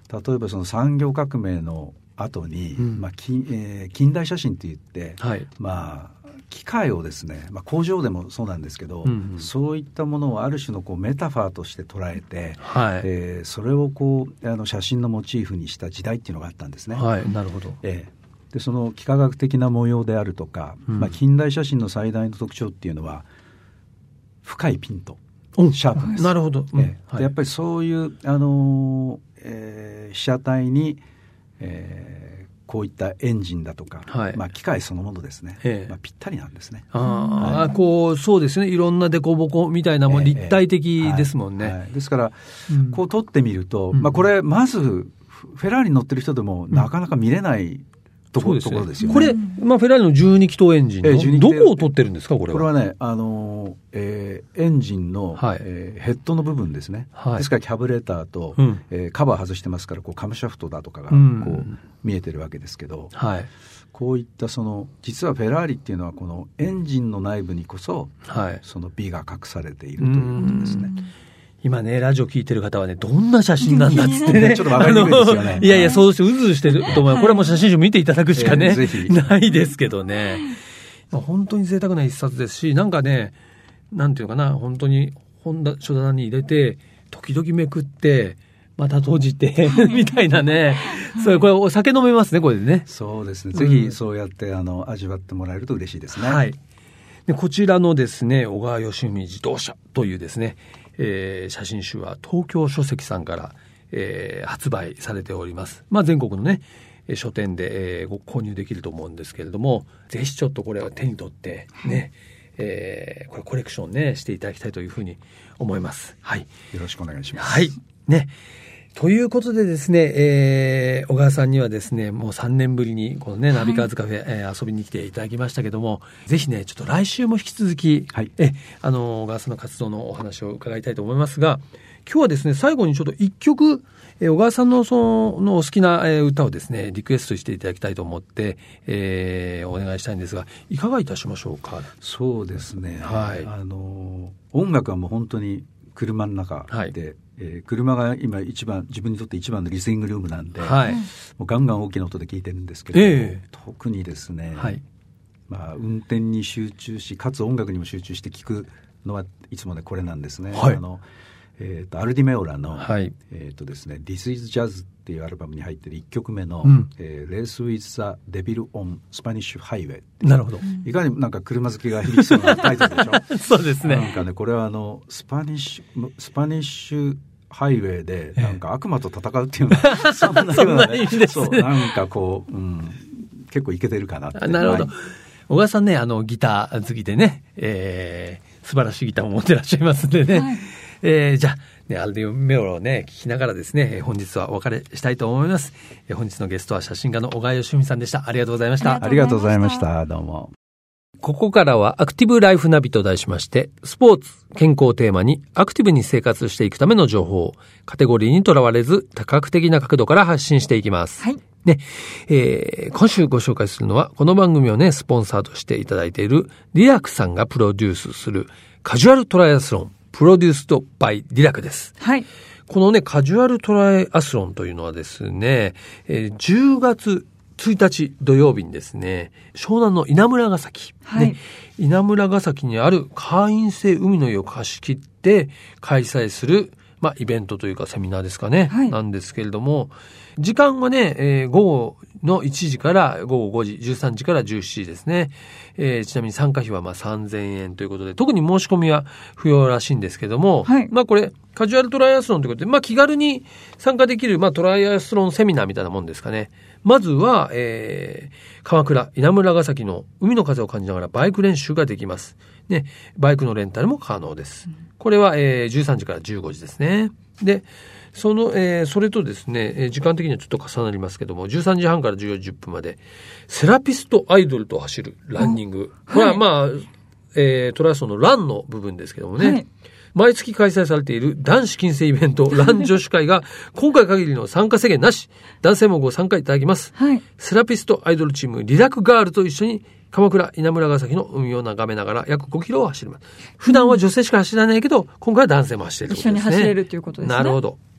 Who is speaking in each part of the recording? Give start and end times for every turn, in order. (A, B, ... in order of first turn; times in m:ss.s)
0:00.1-0:17.1 A
0:02.8-0:03.0 B
0:05.2-0:05.5 B
0:09.0-0:09.5 B
0:12.6-0:13.1 B
0:16.9-0:17.8 B
0:17.8-0:23.3 A
0:20.9-0:21.1 B
0:24.4-0:25.2 A
0:25.6-0:27.3 B
0:25.7-0:31.0 A
0:31.6-0:37.7 A
0:34.1-0:34.4 B
0:35.6-0:35.9 B
0:36.9-0:41.8 B
0:37.1-0:37.7 C
0:40.1-0:49.4 A
0:42.7-0:43.0 B
0:43.9-0:44.2 B
0:48.4-0:52.7 B
0:49.1-0:49.6 C
0:51.0-0:51.9 A
0:52.5-1:03.1 A
0:55.4-0:55.6 B
0:57.2-0:57.5 B
1:01.1-1:01.8 B
1:03.2-1:03.5 B
1:03.9-1:10.9 A
1:08.3-1:08.6 B
1:10.0-1:10.9 B
1:10.8-1:11.0 C
1:11.6-1:20.6 B
1:13.6-1:16.0 C
1:14.1-1:16.0 A
1:16.8-1:17.6 C
1:18.3-1:19.2 A
1:21.1-1:23.3 B
1:23.9-1:32.9 B
1:29.7-1:30.3 C
1:31.0-1:31.4 C
1:32.9-1:36.4 A
1:33.5-1:34.0 B
1:36.1-1:36.6 B
1:37.3-1:56.5 B
1:56.7-1:57.7 A
1:57.4-1:58.3 B
1:59.0-2:21.9 B
2:03.5-2:03.9 C
2:22.0-2:34.8 A
2:23.0-2:23.5 B
2:30.6-2:31.1 B
2:32.9-2:33.4 B
2:34.6-2:34.8 B
2:35.5-2:41.0 A
2:40.5-2:40.8 B
2:41.6-3:04.9 A
2:42.8-2:43.1 B
2:50.2-2:50.7 B
2:52.2-2:54.2 B
2:59.7-3:02.0 B
3:04.4-3:05.0 B
3:05.5-3:19.1 B
3:10.3-3:10.7 C
3:18.8-3:19.9 C
3:19.0-3:20.5 A
3:21.2-3:42.0 B
3:42.0-3:42.3 C
3:42.7-4:39.6 B
3:51.1-3:51.4 C
3:58.7-3:59.0 C
4:10.6-4:10.9 C
4:36.1-4:36.4 C
4:39.4-4:39.6 C
4:40.1-4:57.8 B
4:47.0-4:47.2 C
4:53.7-4:54.0 C
4:56.1-4:57.6 C